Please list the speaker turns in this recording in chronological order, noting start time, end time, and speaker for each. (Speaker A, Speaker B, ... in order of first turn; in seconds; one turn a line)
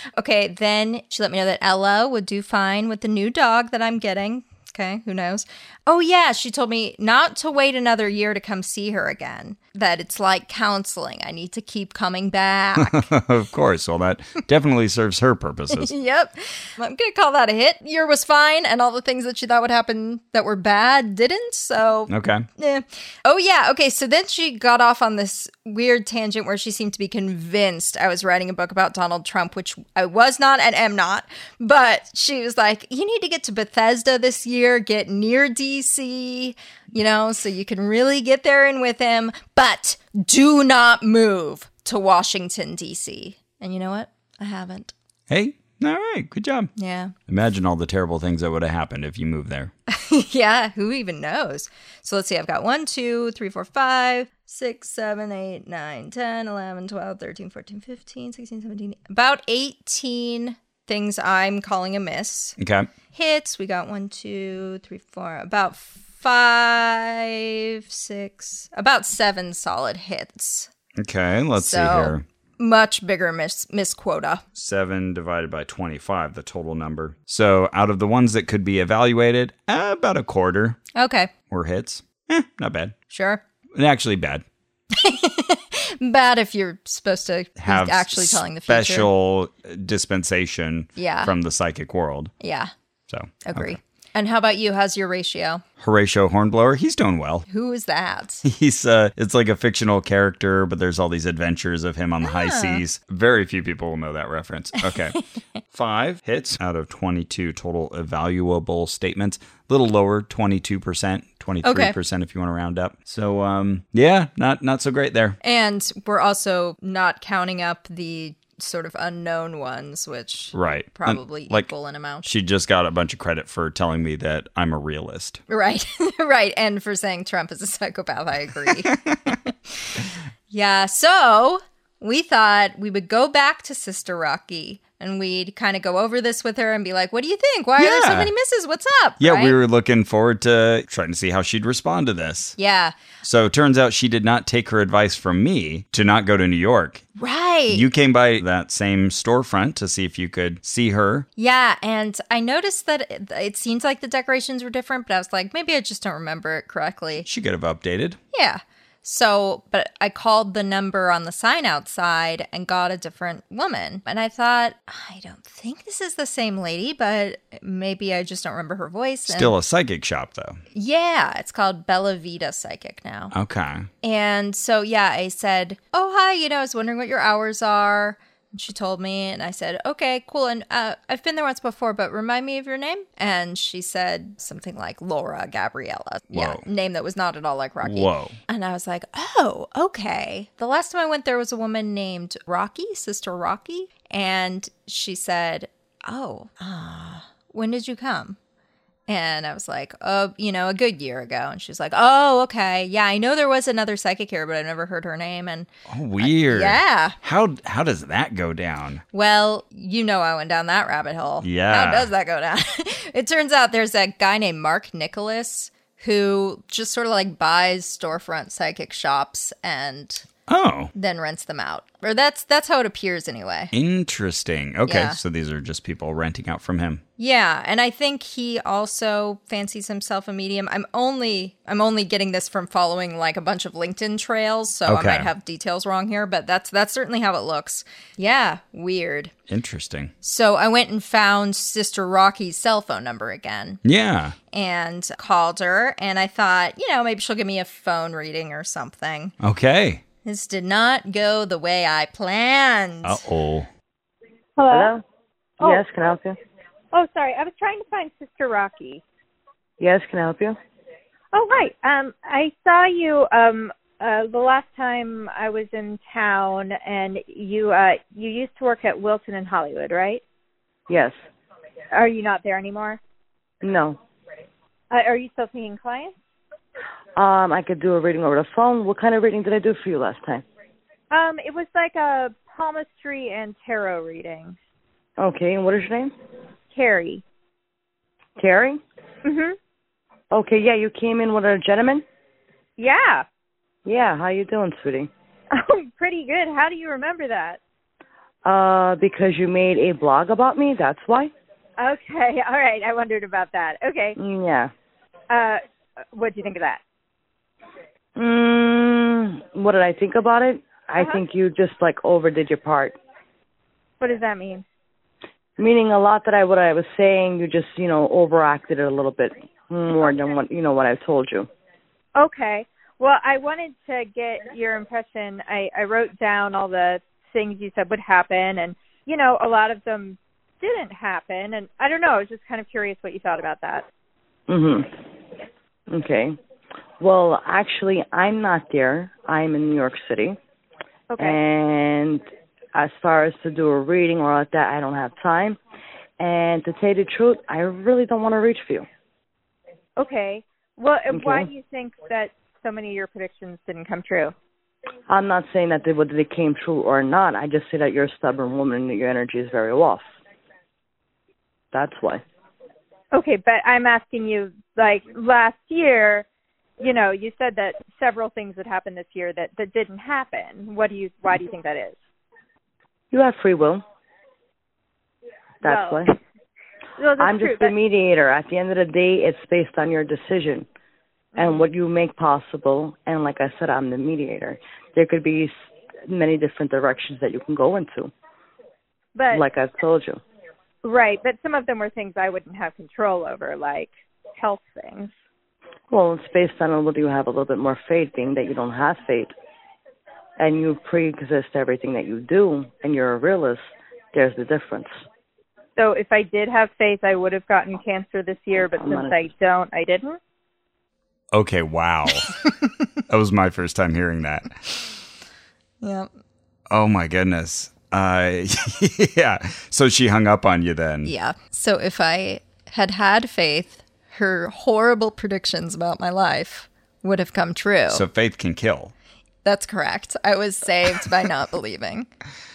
Speaker A: 0.2-13.1
Speaker B: 12.8-15.9
Speaker A: 15.7-44.9
Speaker B: 22.1-22.4
Speaker B: 45.3-46.7
Speaker A: 46.8-47.1
Speaker B: 47.3-49.7
Speaker A: 49.9-62.6
Speaker B: 62.6-62.9
Speaker A: 63.1-70.7
Speaker B: 71.0-72.2
Speaker A: 71.6-74.4
Speaker B: 74.5-80.8
Speaker A: 81.0-81.3
Speaker B: 81.5-83.0
Speaker A: 83.1-83.4
Speaker B: 83.8-84.5
Speaker A: 84.9-89.1
Speaker B: 87.6-92.3
Speaker A: 91.0-91.3
Speaker A: 92.4-92.7
Speaker B: 93.1-93.8
Speaker A: 93.4-95.6
Speaker B: 95.8-97.5
Speaker A: 97.5-98.5
Speaker B: 98.4-105.2
Speaker A: 102.2-102.8
Speaker B: 105.7-115.4
Speaker A: 111.6-112.0
Speaker A: 115.4-122.3
Speaker B: 120.5-121.7
Speaker B: 122.2-125.4
Speaker A: 125.5-129.5
Speaker B: 128.7-129.3
Speaker A: 130.5-139.6
Speaker B: 137.8-138.3
Speaker B: 139.2-142.6
Speaker A: 142.6-142.9
Speaker B: 143.2-147.0
Speaker A: 147.2-147.9
Speaker B: 147.7-151.3
Speaker A: 151.4-157.3
Speaker B: 157.2-158.2
Speaker A: 158.3-169.5
Speaker B: 169.3-170.6
Speaker A: 170.7-173.3
Speaker B: 173.3-173.9
Speaker A: 174.0-198.4
Speaker B: 186.3-186.6
Speaker B: 187.8-188.4
Speaker A: 199.1-205.7
Speaker B: 205.9-209.0
Speaker A: 206.2-207.2
Speaker A: 209.1-220.2
Speaker B: 211.4-212.1
Speaker B: 220.5-220.9
Speaker A: 220.9-223.7
Speaker B: 223.7-227.0
Speaker A: 224.9-225.2
Speaker A: 227.2-239.3
Speaker B: 234.9-235.3
Speaker B: 239.5-240.1
Speaker A: 240.2-243.8
Speaker B: 243.8-244.4
Speaker A: 244.5-249.3
Speaker B: 249.4-250.0
Speaker A: 250.2-253.2
Speaker B: 253.0-253.7
Speaker C: 254.6-255.0
Speaker D: 254.7-255.0
Speaker D: 255.6-256.4
Speaker C: 256.9-259.0
Speaker D: 259.8-260.6
Speaker C: 261.3-270.2
Speaker D: 270.9-271.1
Speaker C: 271.9-273.0
Speaker D: 273.6-274.0
Speaker C: 274.9-276.1
Speaker D: 277.2-280.4
Speaker C: 281.1-284.6
Speaker D: 285.2-286.1
Speaker C: 286.7-287.2
Speaker D: 288.4-288.8
Speaker C: 289.2-289.6
Speaker D: 290.3-292.0
Speaker C: 292.8-293.2
Speaker D: 293.9-295.1
Speaker C: 295.5-297.6
Speaker D: 298.4-301.3
Speaker C: 301.8-304.2
Speaker D: 304.2-304.7
Speaker C: 305.3-305.6
Speaker C: 306.1-306.8
Speaker D: 308.2-313.0
Speaker C: 314.0-314.6
Speaker D: 315.6-321.5
Speaker C: 322.2-333.9
Speaker D: 334.5-334.9
Speaker D: 335.9-336.4
Speaker D: 337.0-340.4
Speaker C: 341.1-341.4
Speaker D: 341.2-342.2
Speaker D: 342.7-345.6
Speaker D: 346.2-348.9
Speaker C: 350.0-354.3
Speaker D: 351.1-351.5
Speaker D: 355.1-360.0
Speaker D: 361.7-362.2
Speaker C: 363.1-366.2
Speaker C: 366.8-371.9
Speaker D: 373.1-373.8
Speaker D: 375.6-376.1
Speaker C: 375.6-376.1
Speaker C: 377.0-377.8
Speaker D: 377.2-380.7
Speaker C: 381.4-381.7
Speaker D: 381.4-385.5
Speaker D: 386.1-388.1
Speaker C: 389.2-389.4
Speaker D: 389.3-390.2
Speaker C: 390.8-395.1
Speaker D: 395.9-399.3
Speaker D: 400.4-404.9
Speaker C: 405.8-410.2
Speaker D: 408.8-409.2
Speaker B: 411.3-412.3
Speaker B: 413.1-414.6
Speaker A: 415.8-416.1
Speaker B: 416.7-421.1
Speaker A: 421.1-428.0
Speaker B: 427.9-428.9
Speaker A: 429.4-432.1